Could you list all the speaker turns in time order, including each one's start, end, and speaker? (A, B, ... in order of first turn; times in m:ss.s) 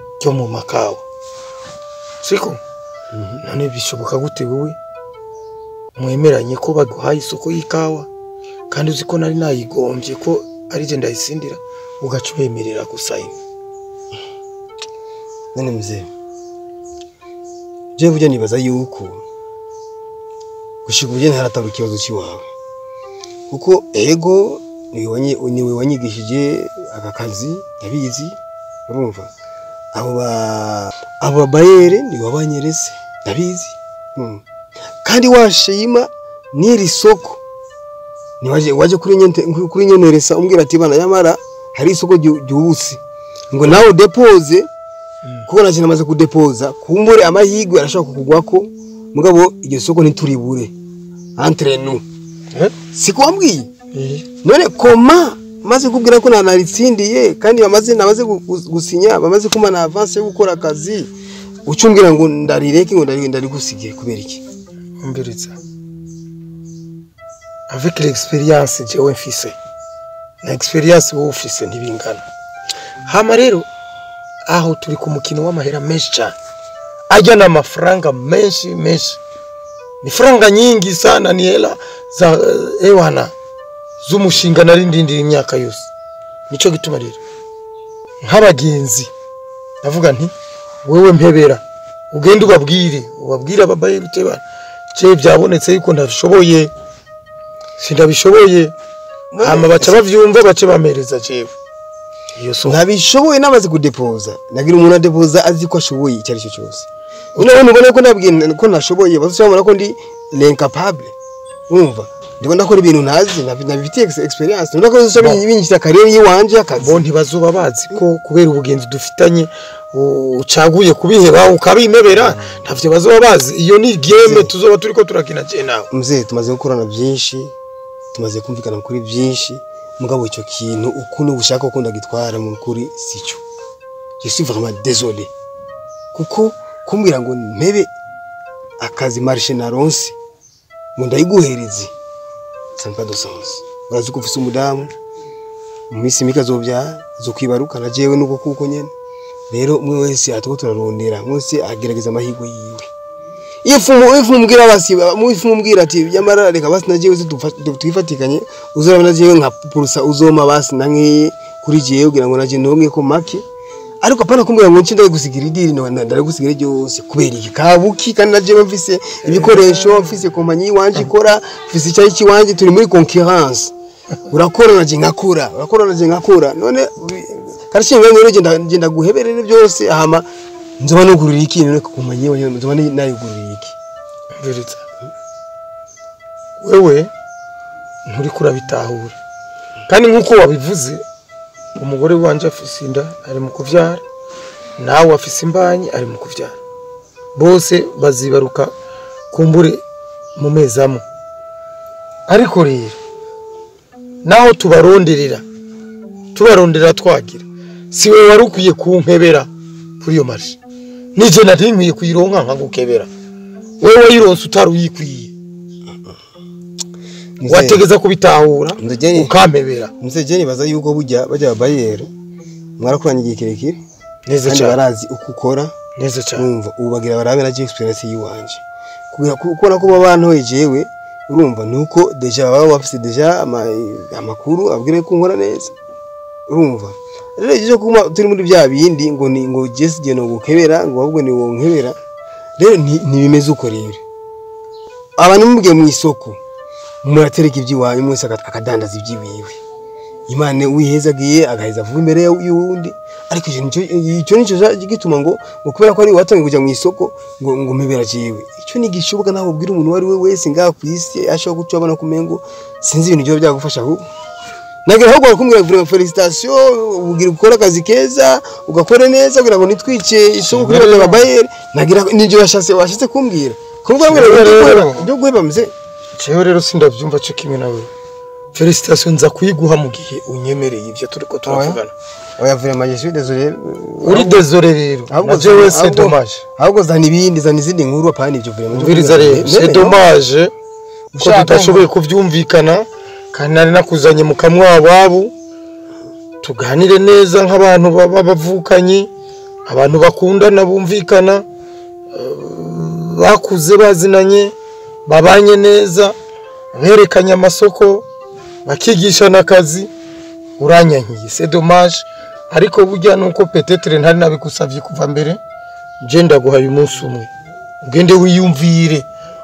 0:00.2-0:01.0 A
0:02.2-0:02.6 A
0:03.1-0:03.4 B
0:03.4-0:04.8 A
0:06.0-0:08.1 A
0:08.7-0:13.4 A
0:15.5-0:16.1 B
0:18.0-0:19.2 B
0:20.8-0:22.4 B
0:23.5-0:29.3 B
0:29.9-0:34.4 B
0:35.0-0:37.4 B
0:38.4-0:43.0 B
0:43.5-0:44.7 B
0:45.5-0:50.7 B
0:51.4-0:52.0 B
0:52.9-0:53.7 B
0:53.9-0:54.2 A
0:54.4-1:01.1 B
1:01.6-1:04.4 B
1:05.0-1:05.6 A
1:07.7-1:09.6 A
1:10.4-1:12.2 A
1:13.1-1:13.7 A
1:14.5-1:16.4 A
1:17.1-1:19.2 A
1:20.0-1:23.3 A
1:24.0-1:25.9 A
1:26.5-1:27.2 A
1:28.2-1:29.1 A
1:29.8-1:30.3 A
1:30.8-1:34.4 A
1:34.9-1:36.7 A
1:37.8-1:38.7 A
1:39.3-1:40.0 B
1:39.4-1:41.5 A
1:42.4-1:42.8 A
1:42.6-1:51.2 B
1:51.7-1:57.0 B
1:55.2-1:55.4 A
1:56.8-2:05.9 A
2:02.1-2:02.6 B
2:04.2-2:04.5 B
2:05.9-2:07.5 B
2:08.1-2:13.4 B
2:14.2-2:15.3 B
2:16.1-2:17.9 B
2:18.8-2:20.2 B
2:21.0-2:21.9 B
2:22.8-2:24.9 B
2:25.9-2:28.9 B
2:29.5-2:32.9 B
2:33.6-2:43.4 B
2:44.0-2:53.7 B
2:49.2-2:50.2 A
2:54.3-3:00.3 B
3:00.8-3:03.8 B
3:04.4-3:04.8 A
3:06.6-3:07.1 A
3:08.0-3:09.2 A
3:09.9-3:11.0 A
3:11.8-3:14.0 A
3:14.8-3:16.6 A
3:17.4-3:18.7 A
3:19.3-3:19.8 A
3:20.4-3:21.0 A
3:22.3-3:23.0 A
3:24.2-3:25.4 A
3:26.3-3:29.5 A
3:30.0-3:30.6 A
3:31.2-3:33.1 A
3:33.8-3:35.3 A
3:37.4-3:37.8 B
3:37.5-3:39.9 A
3:38.8-3:39.3 B
3:40.0-3:42.1 B
3:42.8-3:43.8 B
3:44.3-3:44.8 A
3:44.4-3:45.8 B
3:46.0-3:46.5 A
3:46.4-3:55.7 B
3:56.5-4:02.0 B
4:02.6-4:04.0 B
4:05.2-4:06.4 B
4:07.0-4:09.6 B
4:10.3-4:24.0 B
4:24.9-4:35.7 B
4:30.4-4:31.2 A
4:34.0-4:35.1 A
4:36.2-4:37.9 A
4:38.5-4:41.9 A
4:41.5-4:41.8 B
4:42.4-4:44.4 B
4:44.0-4:46.4 A
4:45.1-4:50.0 B
4:48.7-4:50.5 A
4:51.1-4:51.9 B
4:51.2-4:55.3 A
4:56.4-4:59.1 A
4:59.7-5:01.4 A
5:02.1-5:04.5 A
5:05.0-5:06.2 A
5:06.7-5:08.0 A
5:08.7-5:09.9 A
5:10.6-5:15.4 A
5:16.0-5:17.3 A
5:17.8-5:19.0 A